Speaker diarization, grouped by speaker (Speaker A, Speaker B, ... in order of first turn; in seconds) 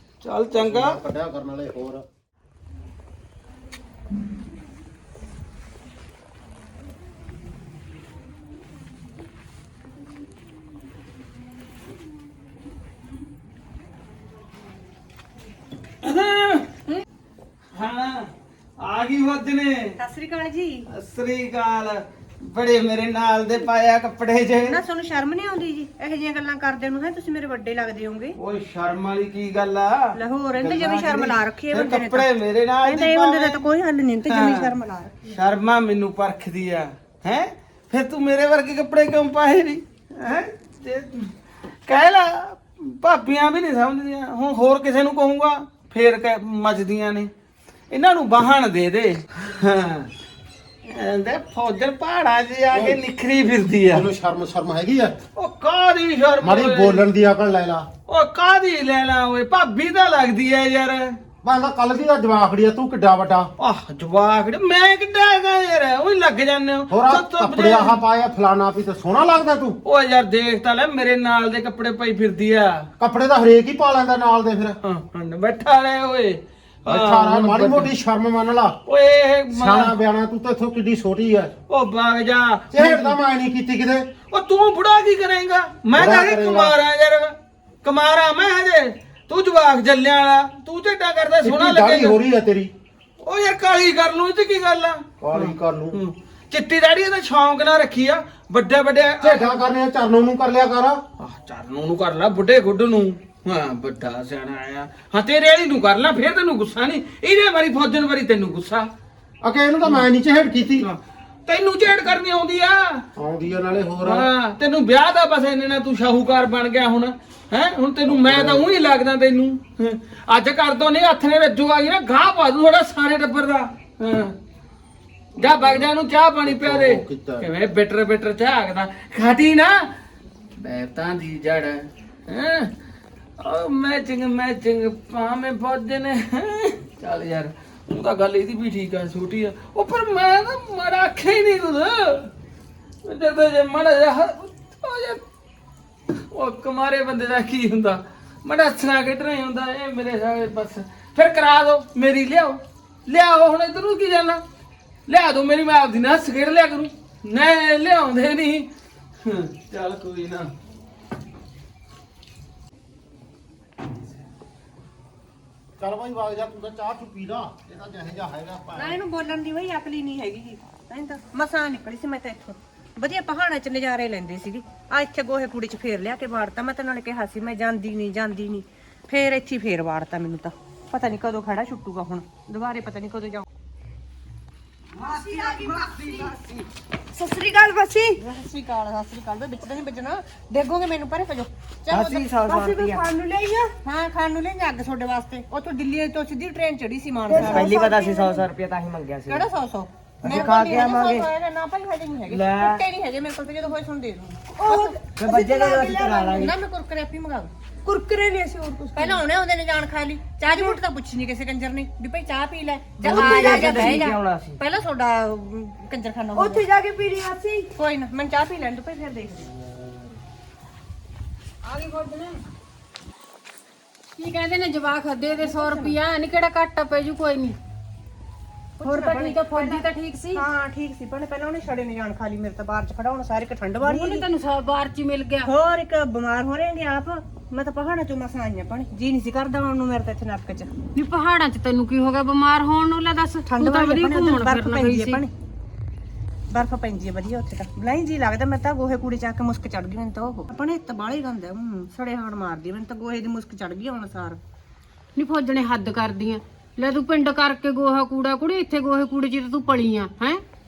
Speaker A: 0.2-1.0, 16.0-16.7, 17.7-19.9, 20.9-24.8, 28.4-33.7, 34.3-34.7, 35.3-41.3, 41.9-47.3, 47.9-50.1, 50.8-54.1, 55.4-57.1, 58.1-61.2, 63.6-68.0, 69.8-72.9, 74.8-77.9, 78.9-79.9, 81.7-83.2, 84.3-92.2, 93.2-99.6, 101.2-108.9, 110.8-113.1, 114.0-124.3, 125.4-129.9, 130.6-132.7, 133.4-142.3, 143.1-145.2, 146.2-154.4, 155.1-158.7, 159.2-160.5
Speaker B: 0.5-2.0, 52.7-53.0, 53.9-55.2, 56.4-57.9, 61.4-63.5, 66.9-69.8, 73.0-74.8, 76.9-78.8, 79.5-81.5, 82.7-84.1, 86.0-86.8, 91.4-92.7, 95.2-96.0, 99.2-101.0, 109.4-110.9, 113.2-114.3, 118.1-118.7, 125.4-125.9, 126.4-127.5, 165.8-169.0
Speaker C: 20.0-20.9, 24.7-28.4, 30.1-32.3, 32.8-35.2, 168.8-183.5, 185.0-186.6, 187.2-198.5, 199.2-207.5, 208.7-219.5, 225.4-226.0, 228.8-234.3, 235.4-240.7, 243.5-245.3, 246.5-254.4
Speaker D: 191.9-193.1, 197.3-199.5, 200.2-201.3, 202.3-202.8, 204.6-206.6, 213.0-214.6, 216.4-216.6
Speaker E: 221.7-222.4, 224.2-227.6, 228.8-230.4, 233.8-235.5, 240.9-245.2, 255.2-260.4